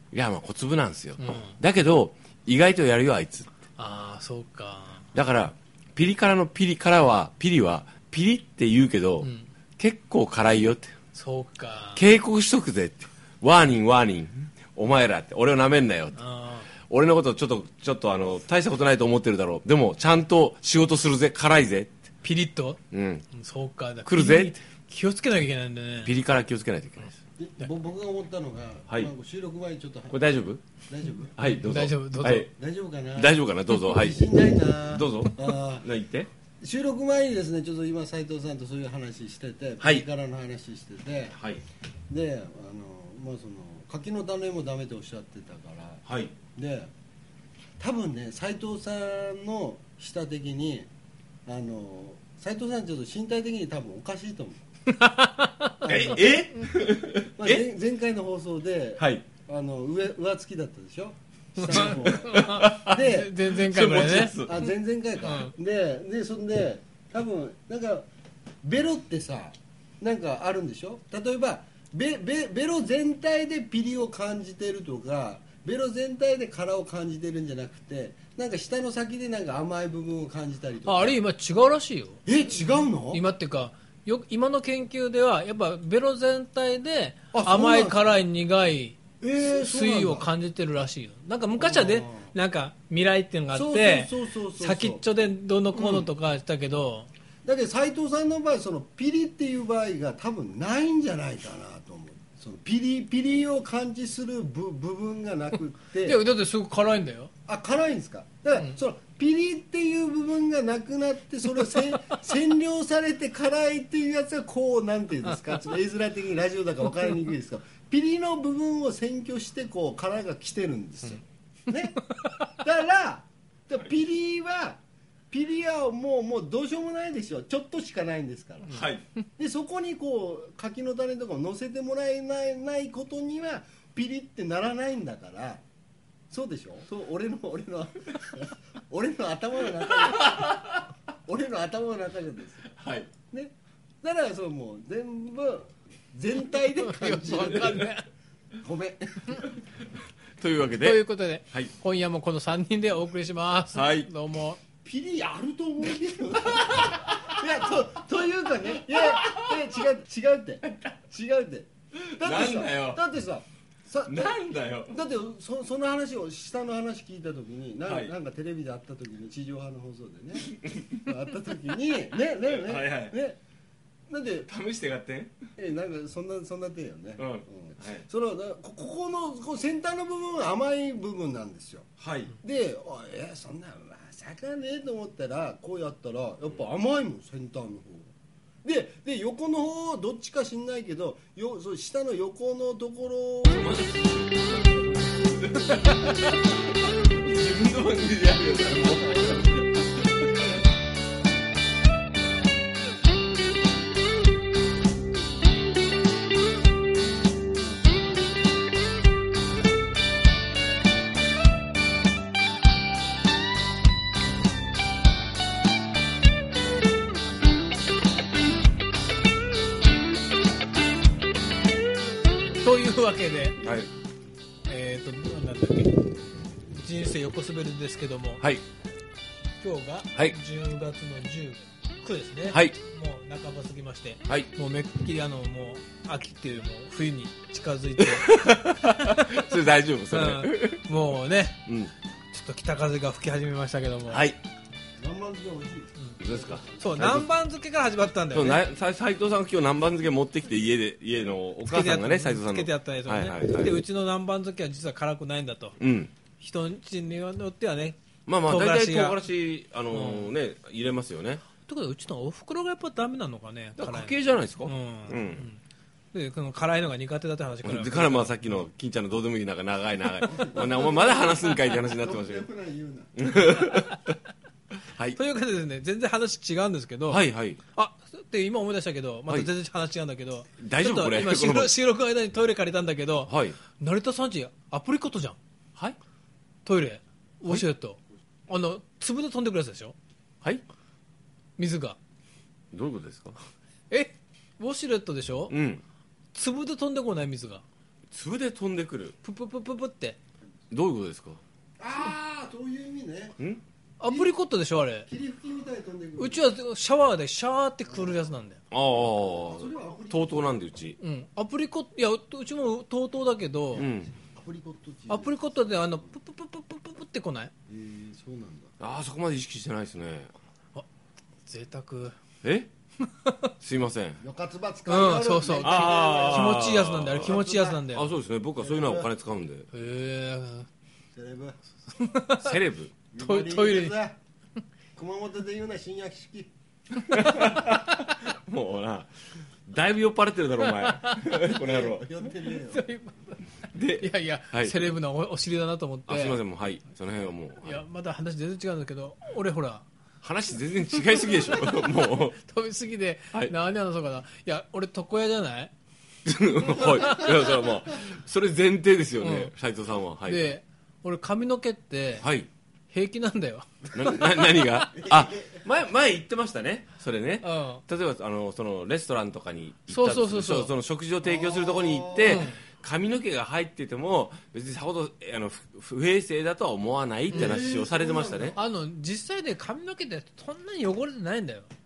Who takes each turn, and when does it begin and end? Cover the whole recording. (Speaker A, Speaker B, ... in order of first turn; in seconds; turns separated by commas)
Speaker A: 0.1-3.5, Speaker B: 1.2-1.6, Speaker B: 3.8-5.0, Speaker A: 5.1-10.9, Speaker B: 9.2-9.5, Speaker B: 11.2-12.0, Speaker A: 12.0-16.2, Speaker B: 16.2-16.7, Speaker A: 16.8-21.9, Speaker B: 22.2-22.8, Speaker A: 22.9-23.2, Speaker B: 23.3-26.1, Speaker A: 24.1-24.6, Speaker A: 26.1-27.2, Speaker C: 27.4-30.2, Speaker A: 30.1-30.6, Speaker C: 30.9-31.3, Speaker A: 31.4-32.5, Speaker B: 31.5-32.5, Speaker C: 32.5-35.9, Speaker A: 33.2-34.3, Speaker A: 34.9-36.3, Speaker C: 36.6-41.4, Speaker A: 41.3-41.6, Speaker C: 42.1-46.9, Speaker A: 46.1-46.3, Speaker C: 47.8-50.9, Speaker C: 51.5-54.6, Speaker B: 54.9-55.9, Speaker C: 55.8-63.4, Speaker A: 55.9-57.6, Speaker A: 59.0-59.2, Speaker B: 61.6-64.4, Speaker A: 61.7-64.6, Speaker C: 64.3-68.1, Speaker B: 65.2-65.5, Speaker C: 68.6-81.2, Speaker B: 80.8-82.2, Speaker C: 82.3-83.2, Speaker B: 83.1-97.1, Speaker C: 87.3-88.0, Speaker C: 89.2-90.3, Speaker C: 91.6-92.3, Speaker C: 93.5-95.0, Speaker C: 95.7-96.1, Speaker C: 97.5-106.2, Speaker B: 106.0-107.3, Speaker C: 107.5-128.8, Speaker A: 128.7-129.0, Speaker C: 129.4-135.6, Speaker C: 136.3-142.7, Speaker A: 140.0-140.9, Speaker A: 142.8-143.1, Speaker C: 143.3-147.9, Speaker B: 146.8-148.1, Speaker C: 148.6-149.4, Speaker A: 150.4-151.7, Speaker B: 150.8-154.6, Speaker A: 153.7-154.1, Speaker C: 154.8-173.4, Speaker A: 156.4-157.4, Speaker A: 158.9-159.7, Speaker A: 160.7-160.9, Speaker A: 162.0-163.0, Speaker A: 164.1-164.9, Speaker A: 167.9-168.1, Speaker A: 170.4-171.1, Speaker A: 172.5-173.2, Speaker C: 174.1-174.5, Speaker A: 174.5-175.4, Speaker C: 175.6-181.9, Speaker A: 177.2-178.1, Speaker A: 182.0-182.3, Speaker C: 182.4-188.1, Speaker C: 188.6-195.8, Speaker A: 193.5-194.7, Speaker A: 195.4-200.3, Speaker C: 198.8-199.5, Speaker B: 222.6-223.7, Speaker A: 223.6-223.9, Speaker B: 224.7-226.0, Speaker B: 226.7-228.4, Speaker B: 229.6-239.5, Speaker A: 232.5-232.8, Speaker A: 238.0-240.8, Speaker B: 240.1-241.6, Speaker A: 241.7-241.9, Speaker B: 242.3-244.3, Speaker A: 244.1-244.4, Speaker C: 245.0-247.1, Speaker A: 246.2-247.3, Speaker B: 246.8-248.6, Speaker A: 248.3-253.8, Speaker B: 251.7-255.8, Speaker A: 255.8-256.1, Speaker B: 256.4-259.2, Speaker A: 258.3-261.4, Speaker B: 259.9-260.3, Speaker B: 261.6-265.6, Speaker A: 263.8-265.5, Speaker B: 266.1-268.4, Speaker A: 267.6-272.5, Speaker C: 270.2-273.2, Speaker A: 273.2-274.2, Speaker A: 274.9-275.2, Speaker B: 275.2-277.2, Speaker A: 277.1-277.6, Speaker B: 277.7-285.4, Speaker A: 280.6-281.7, Speaker A: 283.3-283.6, Speaker B: 286.7-289.9, Speaker B: 291.6-292.0, Speaker A: 292.7-293.4, Speaker B: 293.9-295.5, Speaker A: 295.5-295.8, Speaker B: 296.3-297.6, Speaker A: 298.1-299.2, Speaker B: 299.2-300.2, Speaker A: 300.7-301.4, Speaker C: 301.8-303.4, Speaker B: 304.0-305.1, Speaker C: 304.1-304.3, Speaker C: 305.1-306.4, Speaker B: 306.2-308.6, Speaker C: 307.9-308.2, Speaker A: 308.7-311.0, Speaker C: 309.4-310.6, Speaker B: 311.0-313.9, Speaker A: 313.8-314.1, Speaker C: 314.1-315.9, Speaker B: 315.1-317.5, Speaker C: 317.7-318.7, Speaker A: 318.8-320.3, Speaker B: 321.5-322.2, Speaker A: 322.4-322.7, Speaker B: 323.0-323.5, Speaker A: 323.6-324.2, Speaker C: 324.2-327.8, Speaker B: 324.9-328.1, Speaker A: 325.6-329.7, Speaker C: 328.6-329.1, Speaker B: 329.7-330.7, Speaker C: 331.1-331.6, Speaker B: 331.9-332.6, Speaker A: 332.4-332.9, Speaker C: 333.1-334.2, Speaker B: 333.2-334.0, Speaker C: 334.9-336.5, Speaker A: 337.1-339.1, Speaker A: 339.7-342.1, Speaker B: 340.6-341.4, Speaker C: 341.4-342.8, Speaker B: 342.7-343.4, Speaker A: 343.7-344.8, Speaker B: 344.0-346.4, Speaker A: 346.1-347.8, Speaker B: 347.6-349.9, Speaker A: 350.2-352.4, Speaker B: 351.5-355.7, Speaker A: 356.3-360.5, Speaker B: 356.8-357.3, Speaker B: 359.2-359.5, Speaker B: 360.3-362.3, Speaker A: 362.2-362.5, Speaker B: 362.9-364.8, Speaker A: 363.9-378.6, Speaker C: 364.9-365.6, Speaker B: 367.4-367.8, Speaker B: 369.9-370.7, Speaker C: 371.2-372.4, Speaker B: 372.2-372.6, Speaker C: 377.3-378.6, Speaker B: 377.3-377.6, Speaker B: 378.6-381.7